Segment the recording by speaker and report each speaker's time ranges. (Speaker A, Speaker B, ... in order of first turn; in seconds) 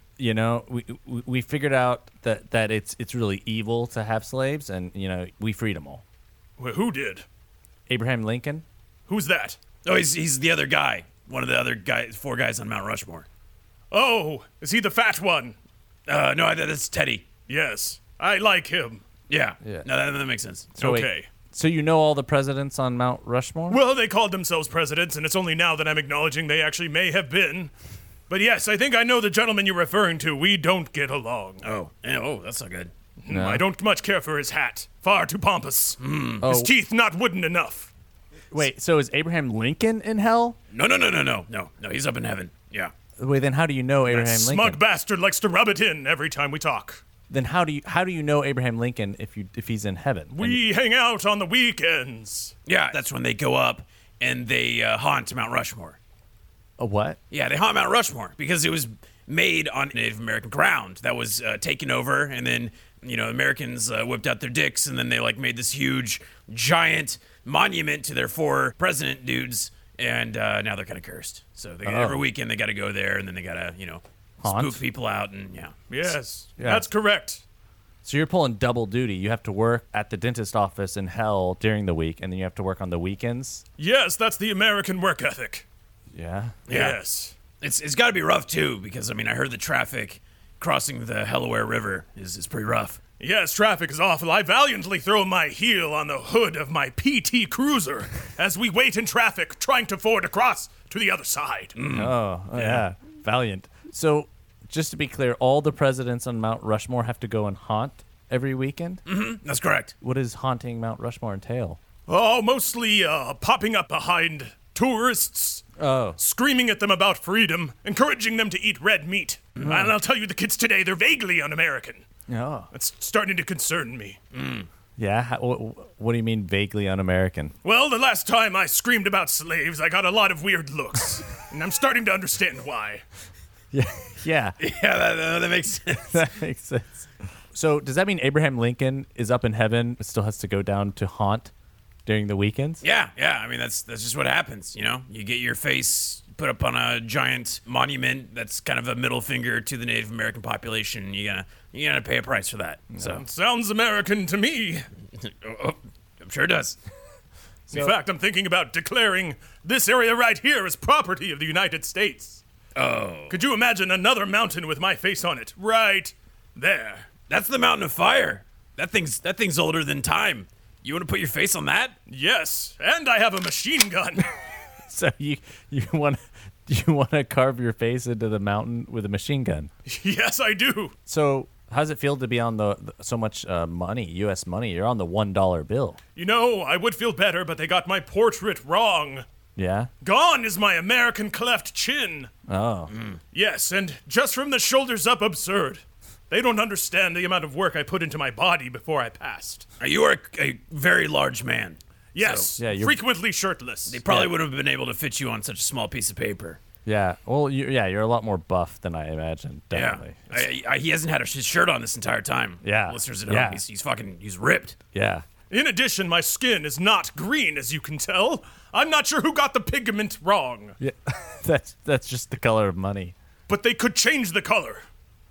Speaker A: 0.2-6.0, 7.9-8.6, 20.8-23.8, 33.3-33.6, 36.4-36.7, 38.5-40.6, 43.2-44.8, 47.3-50.6, 56.8-57.2, 71.8-72.2, 74.4-74.8, 76.6-76.8, 78.0-83.6, 86.1-86.5, 101.9-109.0, 110.0-111.8, 115.8-116.2, 119.7-119.9, 122.3-122.7, 125.0-127.5, 133.7-134.5, 136.1-141.5, 142.1-142.8, 174.8-179.7, 181.1-186.0, 189.6-189.9, 192.5-192.9, 202.6-203.0, 204.1-204.3, 206.8-210.3, 212.6-213.6, 214.9-215.2, 220.8-223.1
Speaker B: 6.6-7.2, 9.1-9.6, 13.9-15.6, 17.5-19.0, 20.8-21.3, 23.7-27.7, 28.3-31.6, 33.2-37.9, 44.1-47.0, 50.3-52.5, 75.9-77.4, 83.8-85.6, 86.7-87.3, 93.2-101.7, 112.1-115.6, 116.2-122.0, 122.7-124.2, 127.6-133.0, 153.2-154.8, 157.7-162.4, 163.3-167.1, 172.1-174.3, 179.8-180.9, 186.2-189.2, 190.0-192.3, 193.3-199.7, 202.1-204.0, 215.5-220.8, 223.5-224.8
Speaker C: 9.8-13.2, 16.1-17.2, 19.3-20.7, 31.6-32.9, 36.0-36.5, 40.7-42.9, 52.6-56.0, 57.3-75.8, 86.7-87.0, 87.6-93.0, 101.7-102.7, 109.0-109.9, 124.3-124.7, 134.6-136.3, 142.8-153.2, 155.2-156.8, 162.8-163.4, 167.3-171.9, 192.9-193.2, 199.8-202.5, 203.9-206.6, 209.7-214.8